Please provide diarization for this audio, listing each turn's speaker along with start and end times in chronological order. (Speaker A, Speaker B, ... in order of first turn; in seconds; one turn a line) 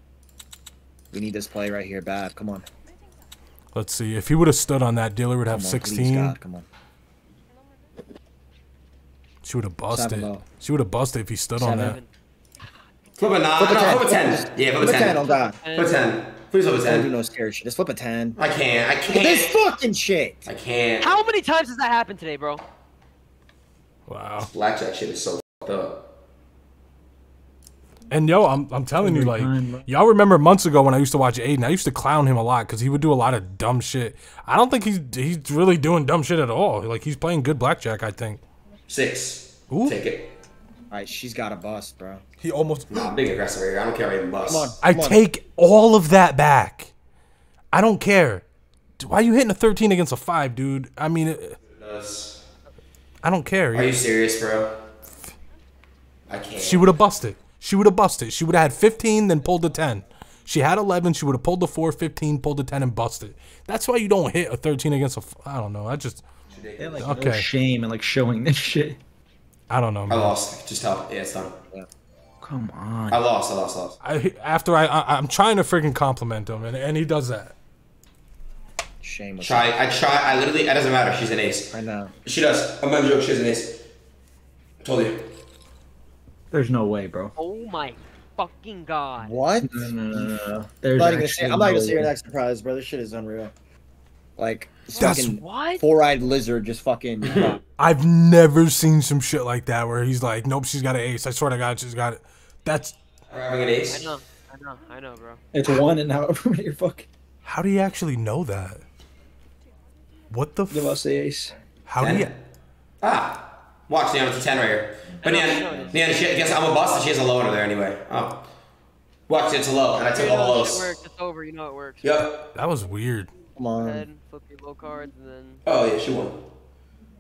Speaker A: 1.1-2.7
Speaker B: 3.7-6.4
Speaker A: 5.5-6.7
Speaker B: 9.4-12.0
Speaker A: 9.9-10.4
Speaker A: 11.6-12.0
Speaker C: 11.7-12.1
Speaker D: 13.2-17.1
Speaker A: 13.6-15.6
Speaker C: 15.0-16.0
Speaker A: 16.9-18.4
Speaker D: 18.4-19.6
Speaker A: 19.1-20.4
Speaker D: 20.5-21.2
Speaker C: 21.0-22.6
Speaker B: 24.1-24.5
Speaker D: 24.4-26.0
Speaker B: 28.1-38.4
Speaker E: 29.0-29.9
Speaker D: 38.9-40.3
Speaker B: 39.7-40.0
Speaker A: 40.9-42.2
Speaker B: 42.4-43.1
Speaker D: 42.9-44.8
Speaker A: 44.4-45.2
Speaker B: 44.8-46.9
Speaker B: 47.7-48.4
Speaker B: 49.0-51.6
Speaker D: 51.7-52.4
Speaker B: 53.2-54.0
Speaker D: 53.7-54.8
Speaker D: 56.3-56.9
Speaker B: 56.5-66.3
Speaker D: 66.5-67.2
Speaker E: 66.8-69.0
Speaker B: 67.0-67.5
Speaker B: 69.7-70.4
Speaker D: 70.1-71.5
Speaker E: 72.4-73.2
Speaker D: 73.1-74.0
Speaker B: 74.0-77.5
Speaker A: 79.0-80.0
Speaker D: 79.4-81.7
Speaker A: 81.7-82.1
Speaker D: 82.2-83.8
Speaker D: 84.8-85.2
Speaker E: 86.5-87.3
Speaker C: 87.4-89.3
Speaker A: 89.2-90.3
Speaker E: 89.6-92.1
Speaker A: 91.0-93.5
Speaker A: 94.4-97.6
Speaker C: 94.9-95.8
Speaker B: 95.0-95.3
Speaker D: 97.2-97.6
Speaker B: 97.8-103.0
Speaker D: 103.3-104.2
Speaker C: 103.9-105.4
Speaker E: 105.5-107.1
Speaker B: 107.5-108.8
Speaker B: 110.3-111.0
Speaker E: 110.7-111.5
Speaker B: 111.9-112.3
Speaker D: 112.0-112.3
Speaker D: 113.0-118.4
Speaker C: 115.2-116.0
Speaker A: 115.5-116.0
Speaker D: 119.3-121.0
Speaker C: 119.9-122.2
Speaker D: 122.0-122.5
Speaker B: 122.5-123.3
Speaker A: 123.6-124.0
Speaker C: 123.8-125.6
Speaker D: 125.7-126.4